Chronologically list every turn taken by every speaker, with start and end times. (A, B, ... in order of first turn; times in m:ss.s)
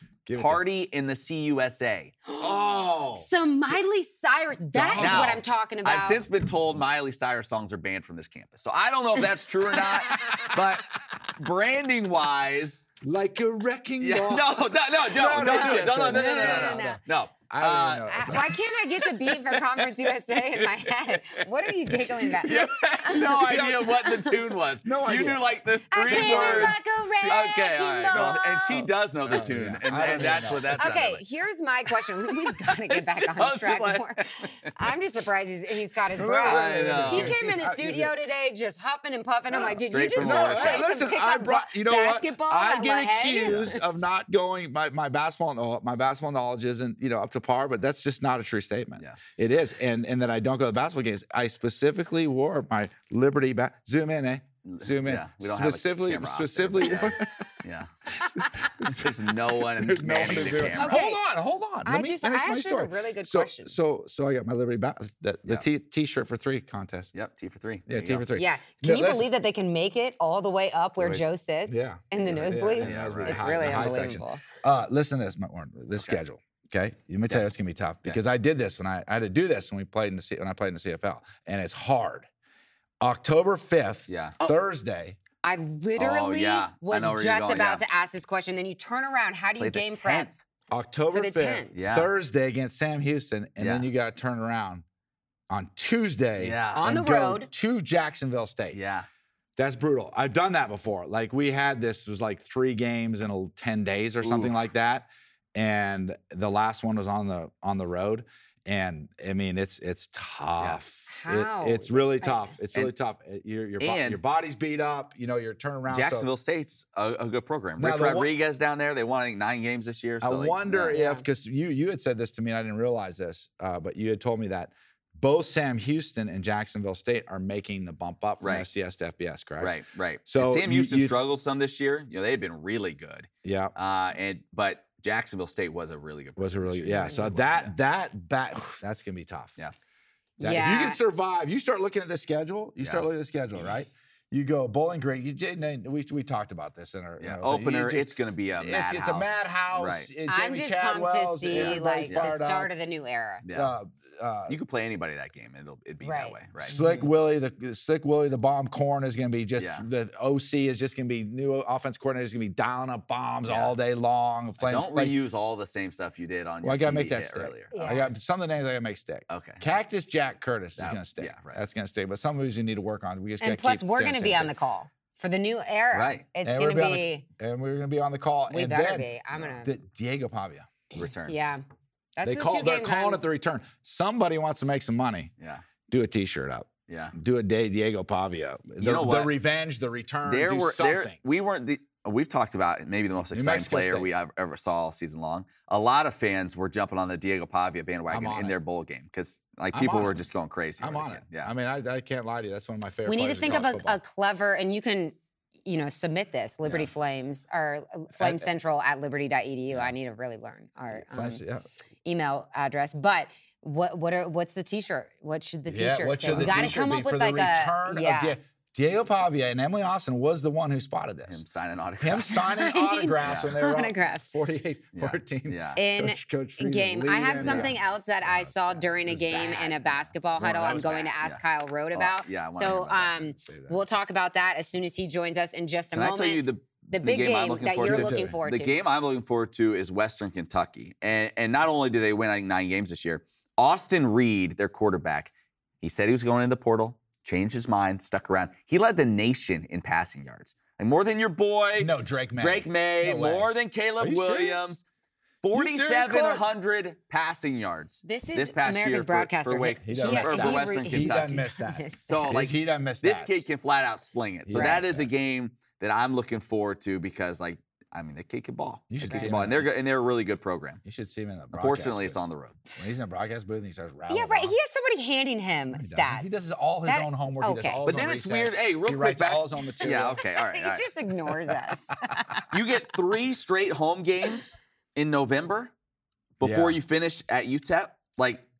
0:00.2-0:00.6 A
0:00.4-0:02.1 B
0:02.3-0:06.2 C
0:02.4-0:03.3 A
0:04.7-0:05.4 A
0:05.0-0:12.8 B
0:10.2-0:10.5 A
0:13.0-0:18.6 A
0:14.0-0:21.5 B
0:15.5-0:17.0 C
0:18.1-0:24.3 C
0:21.9-0:24.0 A
0:22.3-0:31.2 B
0:24.8-0:26.8 A
0:25.9-0:28.9 C
0:28.1-0:30.9 A
0:30.1-0:43.9 C
0:31.9-0:34.2 B
0:36.2-0:38.2 A
0:36.4-0:37.4 B
0:39.5-0:57.3 A
0:39.8-0:40.9 B
0:54.6-0:57.9 B
0:58.2-1:07.1 A
0:58.8-1:00.9 B
1:00.7-1:01.2 C
1:01.8-1:03.7 C
1:07.1-1:08.2 B
1:07.9-1:09.3 A
1:08.3-1:14.4 C
1:11.0-1:22.3 A
1:12.8-1:14.2 B
1:23.0-1:25.2 A
1:24.1-1:24.4 B
1:25.4-1:30.3 C
1:26.0-1:27.8 B
1:29.6-1:30.4 B
1:30.7-1:34.8 A
1:31.1-1:31.7 C
1:31.7-1:32.1 B
1:33.6-1:33.8 B
1:35.5-1:38.8 A
1:36.4-1:36.8 B
1:36.7-1:37.5 C
1:38.7-1:39.1 B
1:39.6-1:56.3 A
1:44.2-1:44.6 B
1:51.1-1:52.5 C
1:53.8-1:54.2 B
1:55.9-2:01.0 B
1:57.8-1:58.3 A
2:00.2-2:09.7 A
2:00.9-2:01.2 C
2:08.4-2:08.7 B
2:09.6-2:17.7 B
2:10.3-2:11.2 A
2:13.4-2:13.7 A
2:16.4-2:19.6 A
2:20.4-2:21.0 C
2:20.4-2:32.7 A
2:22.8-2:23.1 B
2:27.2-2:30.1 B
2:30.3-2:33.4 C
2:31.5-2:32.3 B
2:33.4-2:33.7 B
2:33.5-2:34.6 A
2:34.5-2:36.8 B
2:36.0-2:37.1 C
2:36.6-2:45.2 A
2:39.6-2:39.8 B
2:43.4-2:43.8 B
2:44.6-2:47.7 B
2:46.6-2:54.5 A
2:47.7-2:48.1 C
2:49.3-2:49.7 B
2:50.8-2:51.6 B
2:53.4-2:57.2 C
2:55.9-2:56.2 B
2:56.4-2:59.1 A
2:58.5-2:59.7 C
2:59.6-3:00.7 A
3:00.9-3:01.3 B
3:01.3-3:01.6 C
3:02.2-3:03.2 C
3:02.2-3:05.3 A
3:05.4-3:05.6 B
3:05.9-3:11.2 A
3:06.9-3:07.1 B
3:08.8-3:09.3 B
3:10.2-3:21.5 B
3:13.3-3:14.1 A
3:18.1-3:18.5 A
3:19.7-3:20.2 A
3:20.8-3:24.0 A
3:23.1-3:31.4 C
3:30.9-3:31.6 A
3:32.0-3:38.4 C
3:35.7-3:41.4 A
3:36.3-3:36.7 B
3:41.3-3:42.4 B
3:42.0-3:49.5 A
3:42.1-3:44.3 C
3:43.2-3:43.5 B
3:44.9-3:45.8 B
3:45.8-3:58.7 C
3:47.4-3:47.7 B
3:49.3-3:50.0 B
3:50.4-3:51.1 A
3:50.6-3:51.4 B
3:51.9-3:53.1 B
3:53.2-3:53.8 A
3:55.9-4:05.3 B
3:57.8-3:58.4 A
4:05.8-4:14.8 B
4:11.8-4:13.5 A
4:14.0-4:14.7 A
4:15.4-4:21.4 B
4:15.5-4:16.4 A
4:18.0-4:22.2 C
4:19.8-4:23.4 A
4:22.1-4:30.8 B
4:24.4-4:25.1 A
4:24.5-4:24.8 C
4:28.9-4:29.7 A
4:29.0-4:29.3 C
4:30.8-4:32.2 A
4:31.5-4:32.6 B
4:32.8-4:34.5 A
4:34.1-4:36.3 C
4:35.8-4:40.2 A
4:36.8-4:37.8 C
4:37.8-4:40.9 B
4:40.1-4:42.5 C
4:42.5-4:45.7 B
4:46.4-4:48.4 B
4:46.4-4:46.8 A